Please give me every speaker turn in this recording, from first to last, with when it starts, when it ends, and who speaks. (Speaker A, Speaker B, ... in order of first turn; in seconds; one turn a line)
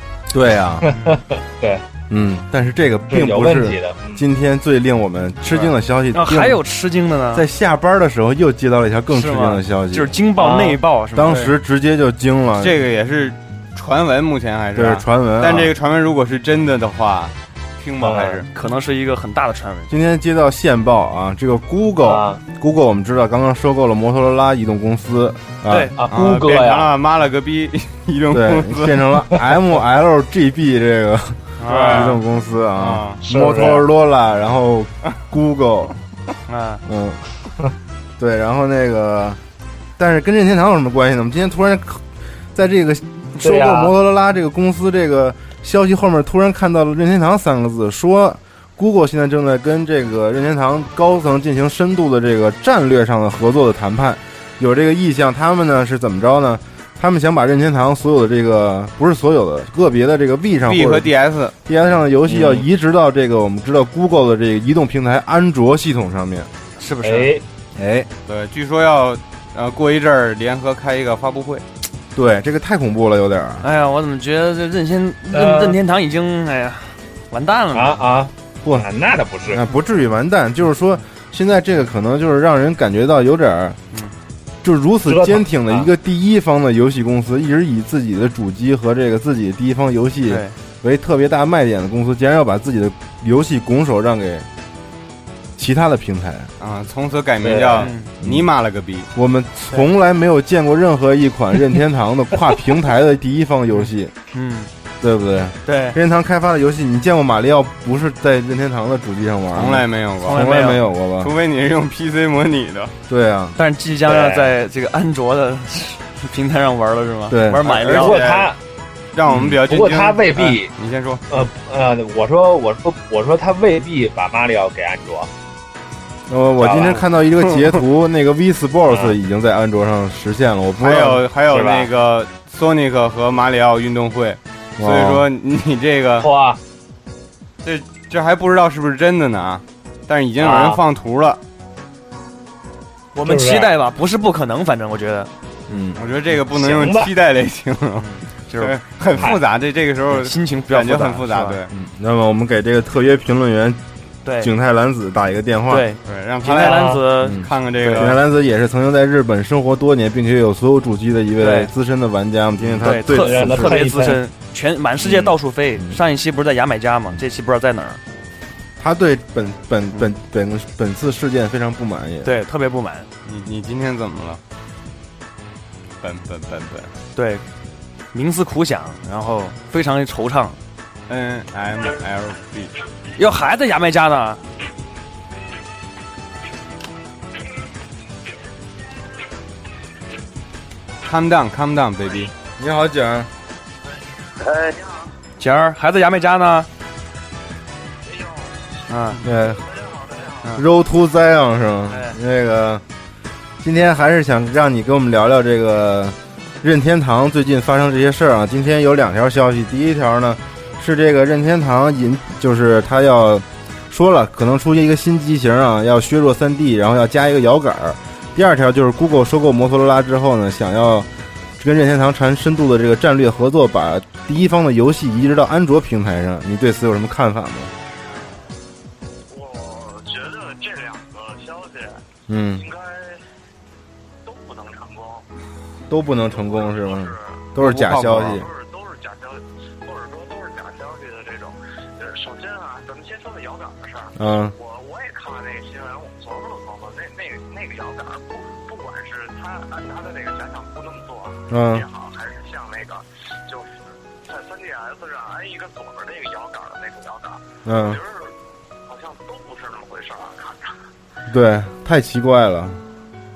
Speaker A: 0.3-0.9
Speaker B: 0.8-1.8
Speaker A: 2.1-6.6
Speaker B: 3.1-4.2
Speaker C: 6.1-7.4
Speaker A: 7.3-10.1
Speaker C: 9.1-11.5
Speaker B: 10.4-10.8
Speaker A: 11.1-12.8
Speaker D: 12.6-18.5
Speaker A: 14.7-15.7
Speaker B: 18.0-18.4
Speaker C: 18.5-19.9
Speaker A: 19.9-25.9
Speaker B: 22.0-22.4
Speaker C: 25.7-25.9
Speaker B: 25.9-26.9
Speaker D: 26.1-29.1
Speaker A: 28.3-36.0
Speaker C: 31.6-32.1
Speaker D: 31.7-32.1
Speaker D: 32.8-33.2
Speaker B: 33.2-33.9
Speaker C: 36.5-36.8
Speaker A: 36.8-37.2
Speaker A: 38.2-39.4
Speaker A: 40.0-61.1
Speaker B: 43.4-43.9
Speaker D: 60.6-61.5
Speaker A: 61.6-66.5
Speaker C: 66.8-67.3
Speaker B: 67.0-67.4
Speaker A: 67.8-68.1
Speaker D: 68.2-71.6
Speaker A: 72.1-73.7
Speaker C: 73.6-78.0
Speaker B: 75.3-75.8
Speaker B: 77.7-79.6
Speaker A: 79.5-83.8
Speaker A: 84.6-94.5
Speaker B: 85.0-85.4
Speaker C: 90.3-90.5
Speaker A: 95.6-96.5
Speaker D: 96.6-99.1
Speaker B: 97.4-97.9
Speaker C: 97.8-98.1
Speaker A: 98.2-98.5
Speaker A: 99.1-104.1
Speaker C: 104.3-104.7
Speaker A: 105.0-111.3
Speaker C: 105.6-106.0
Speaker D: 109.5-110.5
Speaker C: 110.2-110.8
Speaker D: 111.2-112.9
Speaker A: 113.1-113.6
Speaker C: 113.5-118.2
Speaker B: 114.0-114.5
Speaker A: 117.3-117.6
Speaker D: 117.6-118.5
Speaker B: 117.8-118.6
Speaker D: 119.1-121.2
Speaker A: 119.3-119.6
Speaker B: 119.6-120.7
Speaker B: 121.3-125.3
Speaker A: 126.3-131.2
Speaker B: 126.6-127.0
Speaker D: 130.8-136.3
Speaker B: 131.5-131.9
Speaker A: 134.8-135.2
Speaker B: 136.2-136.6
Speaker D: 137.6-141.4
Speaker B: 140.4-140.8
Speaker C: 143.1-145.3
Speaker B: 143.2-143.7
Speaker A: 145.7-146.0
Speaker D: 145.9-151.7
Speaker B: 146.5-147.1
Speaker C: 148.0-148.8
Speaker C: 150.1-151.6
Speaker A: 151.7-153.8
Speaker C: 154.2-154.5
Speaker A: 154.4-155.8
Speaker C: 155.7-158.1
Speaker D: 156.0-158.2
Speaker A: 157.2-163.8
Speaker C: 161.4-161.7
Speaker C: 162.8-168.0
Speaker B: 163.0-164.2
Speaker A: 165.0-166.0
Speaker A: 168.8-172.3
Speaker C: 172.2-173.1
Speaker D: 173.2-174.4
Speaker D: 176.0-176.9
Speaker C: 177.2-177.4
Speaker C: 178.1-180.6
Speaker D: 181.1-182.7
Speaker C: 183.2-184.4
Speaker D: 191.0-192.3
Speaker A: 192.6-193.3
Speaker E: 194.4-195.2
Speaker C: 195.4-196.7
Speaker E: 198.0-200.6
Speaker C: 198.9-199.2
Speaker A: 199.2-199.6
Speaker A: 200.5-202.8
Speaker C: 201.9-202.2
Speaker A: 203.6-221.1
Speaker A: 221.6-227.7
Speaker E: 229.3-233.2
Speaker A: 232.3-232.6
Speaker E: 234.2-235.3
Speaker A: 235.9-238.5
Speaker E: 236.3-237.5
Speaker D: 237.6-238.4
Speaker E: 238.2-260.8
Speaker A: 244.2-244.5
Speaker A: 251.5-251.8
Speaker A: 257.6-258.0
Speaker A: 261.3-262.8